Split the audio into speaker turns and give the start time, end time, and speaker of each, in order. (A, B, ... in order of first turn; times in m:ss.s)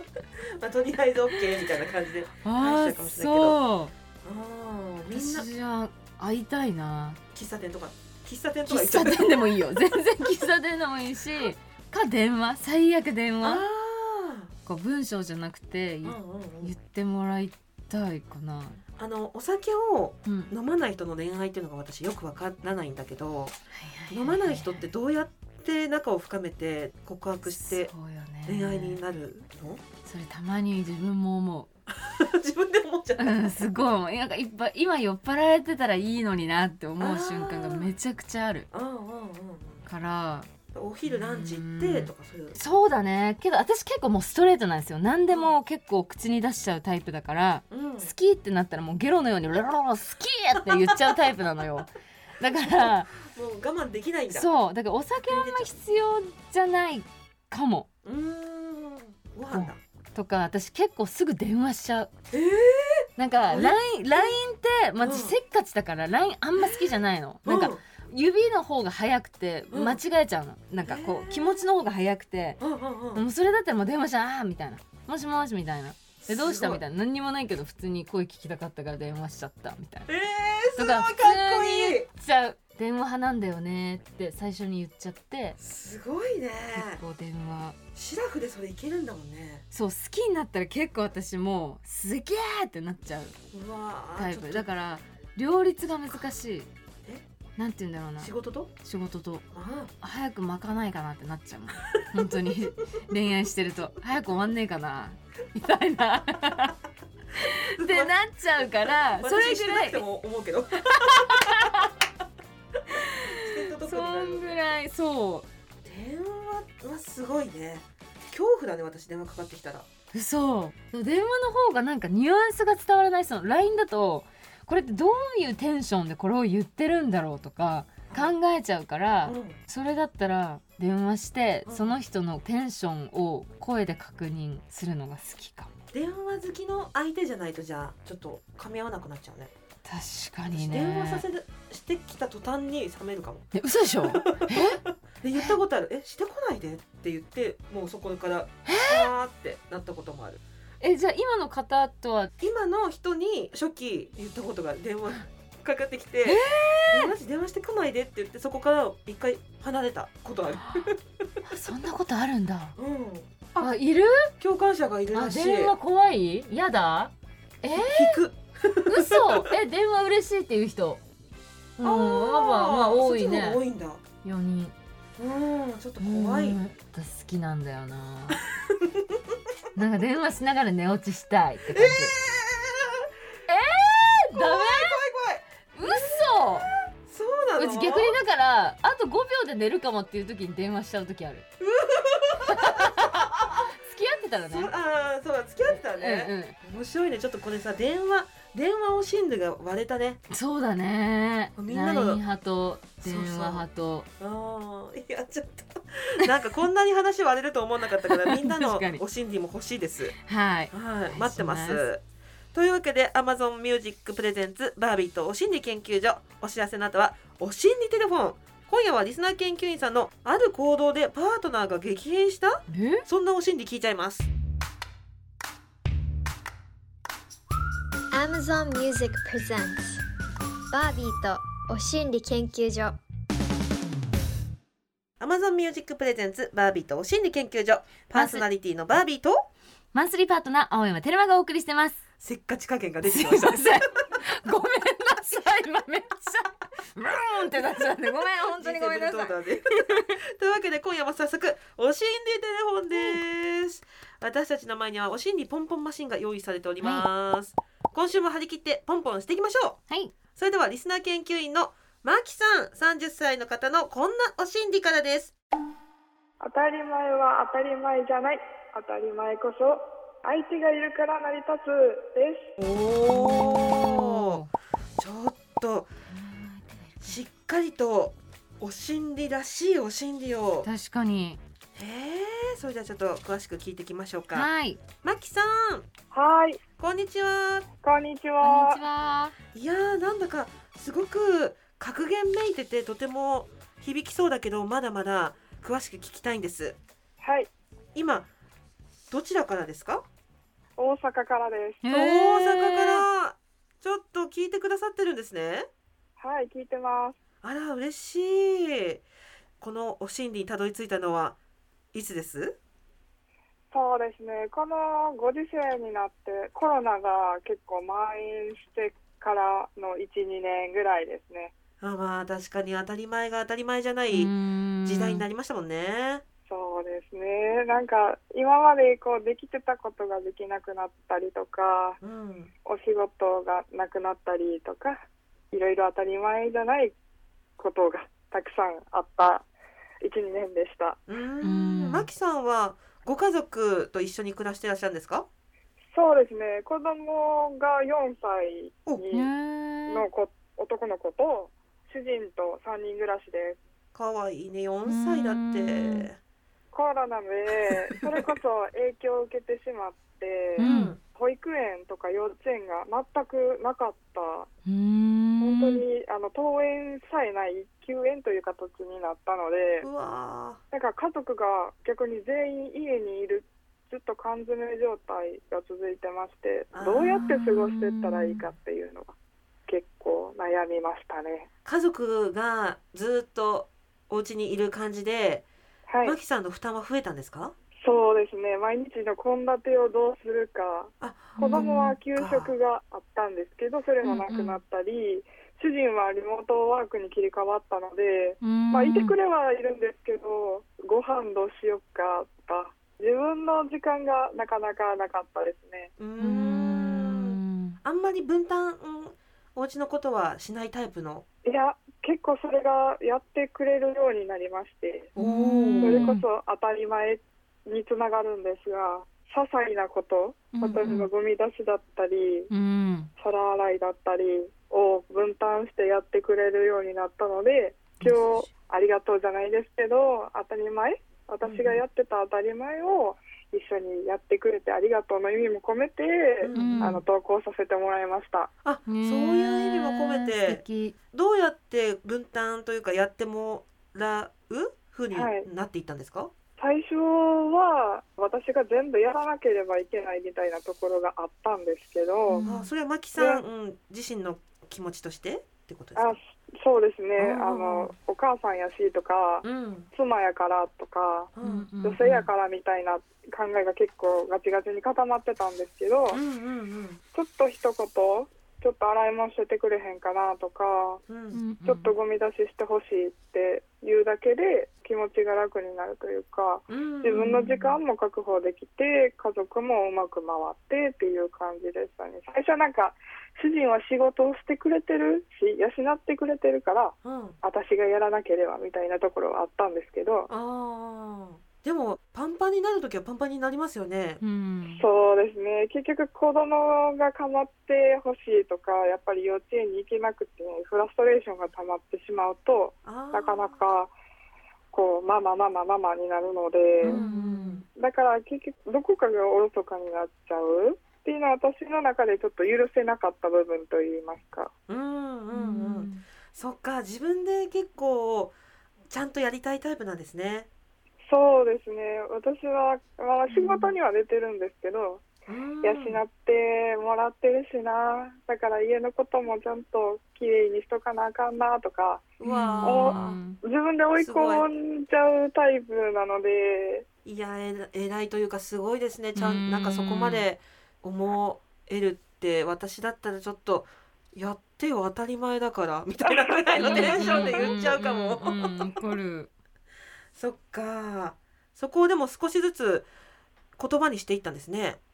0:00.4-0:03.6 A
0:02.4-0:03.9 B
0:04.2-0:05.5 A
0:05.1-0:07.2 B
0:07.3-0:09.5 A
0:08.6-0:13.6 B
0:13.4-0:14.5 A
0:14.6-0:18.8 B
0:16.0-0:16.7 A
0:19.0-0:23.6 A
0:20.2-0:20.5 B
0:23.7-0:24.9 B
0:24.1-0:27.9 A
0:27.6-0:29.0 B
0:28.4-0:29.8 A
0:30.0-0:31.7 B
0:31.9-0:33.6 A
0:33.2-0:38.7 B
0:37.0-0:37.9 A
0:38.7-0:39.8 A
0:39.8-0:40.5 B
0:40.7-0:42.6 A
0:41.1-0:53.1 B
0:47.7-0:48.1 A
0:50.7-0:51.1 A
0:52.5-0:54.5 A
0:54.3-0:57.9 B
0:55.2-0:55.8 A
0:58.0-0:59.8 A
0:59.5-1:02.1 B
1:02.3-1:04.3 A
1:03.2-1:12.6 B
1:05.0-1:05.4 A
1:06.6-1:06.8 A
1:07.4-1:07.8 A
1:09.7-1:10.0 A
1:10.8-1:11.6 A
1:12.6-1:13.2 A
1:13.1-1:20.1 B
1:16.2-1:16.8 A
1:20.1-1:22.1 A
1:20.8-1:25.6 B
1:25.6-1:27.0 A
1:26.7-1:27.8 B
1:27.9-1:29.6 A
1:29.7-1:33.4 B
1:33.5-1:34.7 A
1:34.2-1:36.7 B
1:37.6-1:38.3 B
1:38.2-1:38.7 A
1:38.8-1:39.4 B
1:39.5-1:39.9 A
1:40.0-1:46.7 B
1:41.9-1:43.0 A
1:47.4-1:48.1 A
1:47.4-1:50.0 B
1:49.2-1:51.9 A
1:50.9-1:51.9 B
1:52.9-1:55.5 B
1:52.9-1:54.6 A
1:55.8-1:59.9 A
2:00.1-2:15.7 B
2:08.1-2:08.4 A
2:09.2-2:09.6 A
2:11.6-2:11.9 A
2:15.9-2:19.5 A
2:19.8-2:21.2 B
2:20.5-2:23.5 A
2:23.5-2:24.8 B
2:24.0-2:30.4 A
2:28.6-2:29.1 B
2:30.8-2:32.3 B
2:32.4-2:41.0 A
2:36.2-2:37.1 B
2:41.4-2:42.7 B
2:42.8-2:43.7 A
2:43.6-2:44.3 B
2:44.4-2:45.7 A
2:45.1-2:48.2 B
2:47.7-2:49.5 A
2:48.8-2:51.0 B
2:51.8-2:53.6 B
2:51.8-2:54.0 A
2:54.2-2:54.7 B
2:55.2-2:56.6 A
2:56.0-2:58.4 B
2:58.3-2:59.4 A
2:59.7-3:02.1 B
3:01.7-3:03.1 A
3:03.5-3:05.0 B
3:04.3-3:08.2 A
3:05.7-3:06.7 B
3:07.6-3:11.4 B
3:11.6-3:13.7 A
3:12.4-3:14.7 B
3:14.5-3:20.2 A
3:15.9-3:16.5 B
3:20.3-3:24.1 B
3:21.6-3:22.2 A
3:23.0-3:23.6 A
3:24.2-3:30.2 A
3:28.1-3:29.0 B
3:30.2-3:31.8 B
3:30.7-3:32.0 A
3:32.5-3:44.3 A
3:42.7-3:43.0 B
3:48.1-3:50.0 C
3:50.7-3:53.0 C
3:55.2-3:59.4 A
3:58.1-3:58.4 B
3:59.9-4:02.0 B
4:02.2-4:03.9 A
4:03.0-4:10.2 B
4:08.6-4:19.8 A
4:12.9-4:13.2 B
4:16.8-4:17.0 B
4:20.4-4:25.3 A
4:26.4-4:32.5 D
4:32.6-4:34.4 A
4:33.0-4:34.5 B
4:35.0-4:35.9 A
4:36.1-4:37.2 B
4:37.0-4:40.7 A
4:40.6-4:41.4 B
4:41.7-4:44.5 A
4:44.3-4:44.8 B
4:45.0-4:45.9 A
4:46.1-4:46.6 D
4:46.8-4:47.7 A
4:47.8-4:48.8 D
4:48.4-4:49.4 B
4:49.5-4:56.8 A
4:57.2-4:57.5 D
4:57.9-4:58.3 A
4:59.1-5:00.0 A
5:00.8-5:01.8 D
5:01.8-5:03.0 B
5:01.9-5:05.7 A
5:06.2-5:07.2 D
5:07.4-5:09.0 A
5:09.6-5:11.4 A
5:11.9-5:12.6 A
5:13.7-5:21.5 D
5:21.8-5:24.3 A
5:24.1-5:25.2 B
5:24.8-5:26.2 A
5:26.5-5:32.0 D
5:32.0-5:32.5 A
5:32.6-5:36.9 D
5:37.6-5:39.5 D
5:40.0-5:41.0 D
5:41.1-5:45.3 A
5:41.4-5:42.1 B
5:45.9-5:49.3 D
5:49.1-5:50.1 B
5:49.9-5:53.6 D
5:53.9-5:56.2 A
5:54.8-5:56.1 B
5:56.7-6:04.5 D
6:00.6-6:00.9 B
6:00.6-6:01.0 A
6:04.6-6:05.8 B
6:05.4-6:09.9 D
6:09.8-6:10.6 A
6:10.7-6:19.1 D
6:16.7-6:17.2 A
6:17.1-6:18.4 B
6:19.7-6:21.5 D
6:21.6-6:25.4 A
6:25.9-6:26.2 D
6:26.0-6:27.5 A
6:27.8-6:45.9 D
6:31.0-6:32.5 A
6:31.4-6:32.0 B
6:34.0-6:34.6 B
6:38.4-6:39.2 B
6:46.0-6:51.2 A
6:46.2-6:47.8 B
6:51.4-6:55.1 D
6:55.2-6:56.1 A
6:55.2-6:56.2 B
6:55.8-7:02.5 D
7:00.5-7:01.1 B
7:02.5-7:03.1 B
7:03.2-7:18.5 D
7:11.4-7:11.8 A
7:16.4-7:17.0 A
7:16.5-7:17.0 B
7:18.6-7:26.3 A
7:18.9-7:21.0 B
7:25.1-7:25.5 D
7:26.6-7:32.4 D
7:32.3-7:32.7 B
7:32.4-7:36.2 A
7:33.2-7:33.4 D
7:36.0-7:46.2 D
7:37.2-7:37.9 A
7:39.4-7:39.9 A
7:41.4-7:41.7 A
7:41.4-7:42.3 B
7:46.1-7:47.0 A
7:47.1-7:51.0 D
7:51.1-7:51.4 A
7:51.3-7:51.9 B
7:51.6-8:10.3 D
7:56.7-7:57.5 A
7:57.2-7:57.7 B
8:07.0-8:07.4 A
8:10.3-8:14.2 A
8:14.2-8:14.8 B
8:14.8-8:23.9 D
8:22.8-8:23.6 A
8:24.7-8:27.0 D
8:26.8-8:27.6 B
8:26.8-8:27.6 A
8:27.7-8:34.5 D
8:34.7-8:38.3 A
8:35.3-8:36.0 B
8:38.9-8:40.5 A
8:41.1-8:45.0 D
8:43.3-8:43.7 B
8:45.3-8:46.0 A
8:45.6-8:52.1 D
8:52.2-8:53.2 A
8:52.2-8:53.4 B
8:52.6-8:56.8 D
8:54.0-8:54.4 A
8:57.0-9:08.6 A
8:59.1-9:00.2 B
9:06.1-9:07.6 D
9:06.6-9:09.3 B
9:10.1-9:12.9 A
9:13.6-9:14.8 A